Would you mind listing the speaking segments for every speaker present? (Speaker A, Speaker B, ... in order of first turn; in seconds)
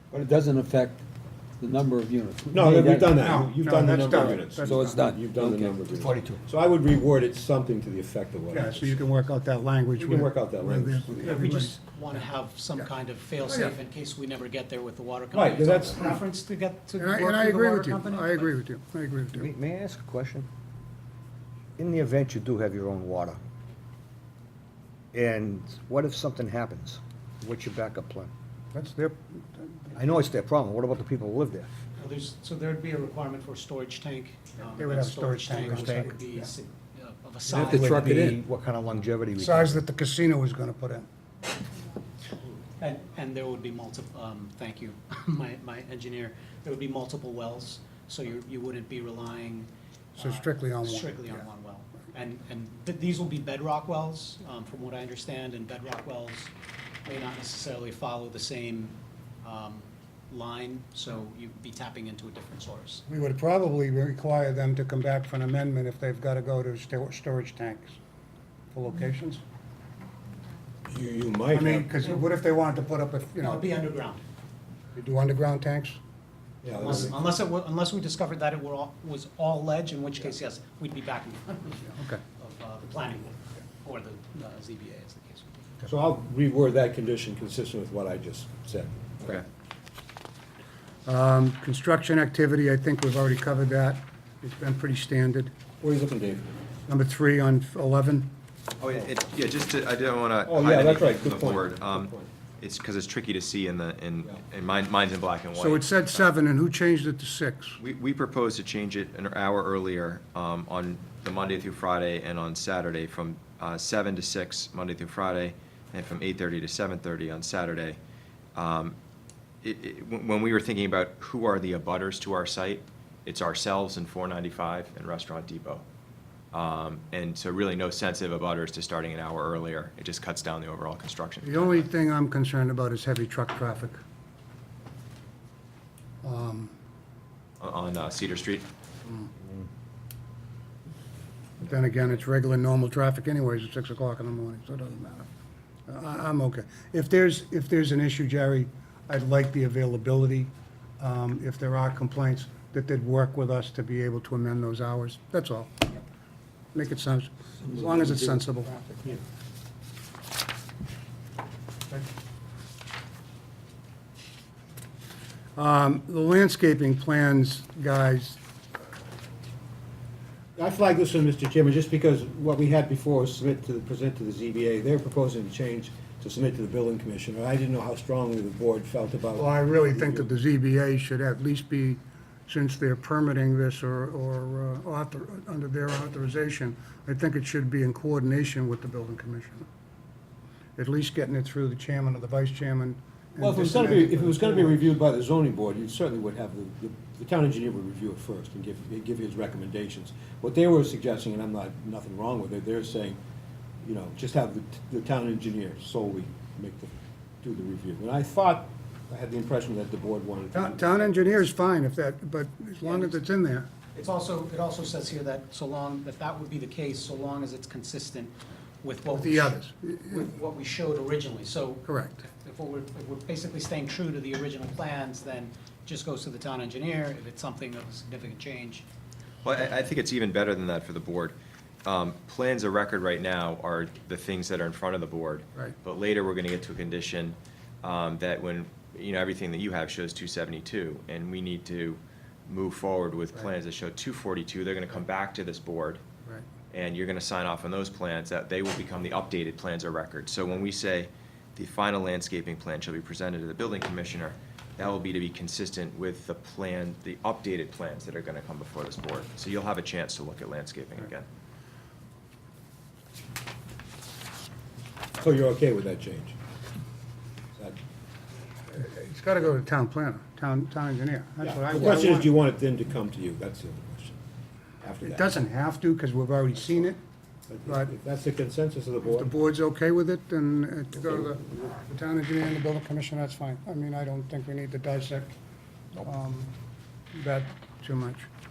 Speaker A: 0.1-1.1, 1.6-3.2, 4.2-6.4, 37.5-38.4, 157.7-158.4
Speaker B: 2.5-9.0, 10.0-11.4, 15.3-16.2, 70.9-71.9, 76.6-77.2, 85.8-89.4, 95.8-96.5, 100.5-102.3, 170.6-180.3, 193.4-203.2, 203.8-211.3, 265.2-266.4, 271.4-274.2, 274.8-275.3, 277.5-279.3
Speaker C: 3.1-5.0, 8.5-11.8, 13.5-13.8, 17.0-19.5, 28.7-29.9, 34.8-36.5, 37.6-38.2, 39.4-41.1, 50.2-51.4, 63.1-68.0, 68.7-69.4, 71.5-73.7, 75.0-76.0, 91.1-95.5, 96.9-98.3, 105.5-107.8, 131.4-134.0, 136.2-136.8, 139.1-139.3, 141.6-145.3, 145.9-156.0, 156.7-159.2, 165.6-168.4, 179.4-189.7, 190.8-194.8, 210.5-213.7, 219.1-220.2, 221.9-222.2, 268.7-272.3, 275.0-277.0, 279.1-285.3, 286.0-286.6, 287.1-288.3
Speaker D: 11.2-18.6, 32.0-37.9, 42.8-56.5, 57.0-63.0, 73.4-74.2, 76.7-85.5, 212.8-213.2, 213.9-228.9
Speaker E: 19.3-20.5, 21.8-23.4, 25.1-28.3, 29.9-31.7, 35.7-36.1, 37.7-39.8
Speaker F: 98.8-106.3, 107.8-118.0, 118.5-119.0, 119.6-125.8, 126.5-131.9, 137.6-138.7, 229.4-246.0, 246.7-261.3